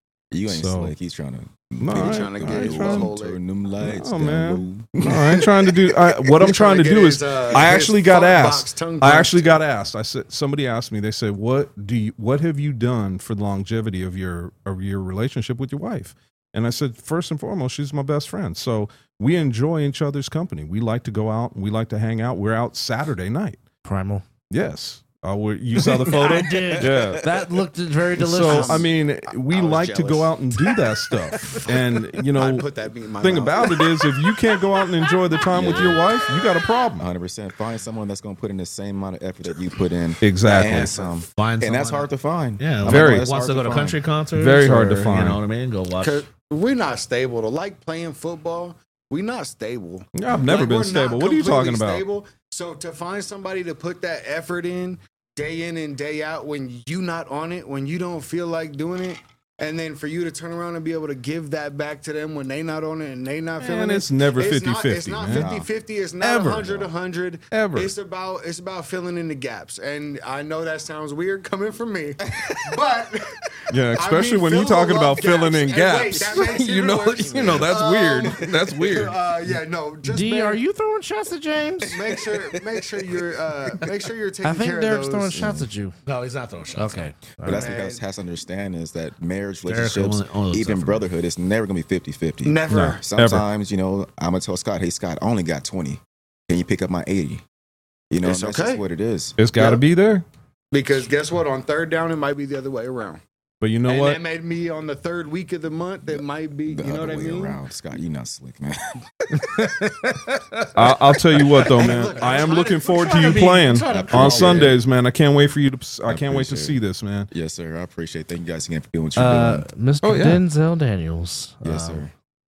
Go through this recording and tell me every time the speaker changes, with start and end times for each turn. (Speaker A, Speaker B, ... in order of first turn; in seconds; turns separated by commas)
Speaker A: 0.3-5.5, Speaker B: 0.5-0.9, Speaker B: 1.8-3.1, Speaker C: 1.9-3.4, Speaker B: 3.8-23.6, Speaker C: 6.3-9.5, Speaker D: 23.9-24.2, Speaker B: 24.5-27.3, Speaker D: 26.1-28.9, Speaker B: 28.2-37.1, Speaker C: 28.4-30.4, Speaker C: 31.4-31.8, Speaker C: 32.3-33.9, Speaker A: 35.5-36.0, Speaker A: 37.0-44.0, Speaker B: 40.2-40.9, Speaker E: 41.0-46.2, Speaker B: 42.9-43.3, Speaker B: 44.3-45.4, Speaker C: 46.0-80.6, Speaker B: 50.1-52.0, Speaker B: 63.6-65.5, Speaker A: 65.3-65.7, Speaker B: 66.2-66.9, Speaker B: 67.5-67.9, Speaker B: 73.7-79.2, Speaker D: 80.0-82.0, Speaker C: 81.8-85.4, Speaker A: 82.0-82.3, Speaker D: 84.4-86.0, Speaker A: 85.3-85.7, Speaker E: 86.1-87.1, Speaker D: 86.8-87.7, Speaker A: 87.4-97.4, Speaker C: 87.5-88.0, Speaker E: 89.7-91.1, Speaker C: 92.4-93.0, Speaker B: 92.7-93.5, Speaker A: 98.1-99.4, Speaker C: 98.2-98.8, Speaker B: 99.4-100.2, Speaker C: 99.6-99.8, Speaker C: 100.7-103.2, Speaker B: 103.6-104.2, Speaker C: 103.9-107.6, Speaker A: 106.7-109.7, Speaker D: 109.6-110.2, Speaker B: 110.7-117.3, Speaker C: 111.7-114.7, Speaker A: 113.9-114.8, Speaker A: 116.1-116.8, Speaker A: 117.3-119.7, Speaker D: 119.2-122.1, Speaker B: 120.0-120.4, Speaker A: 121.6-122.1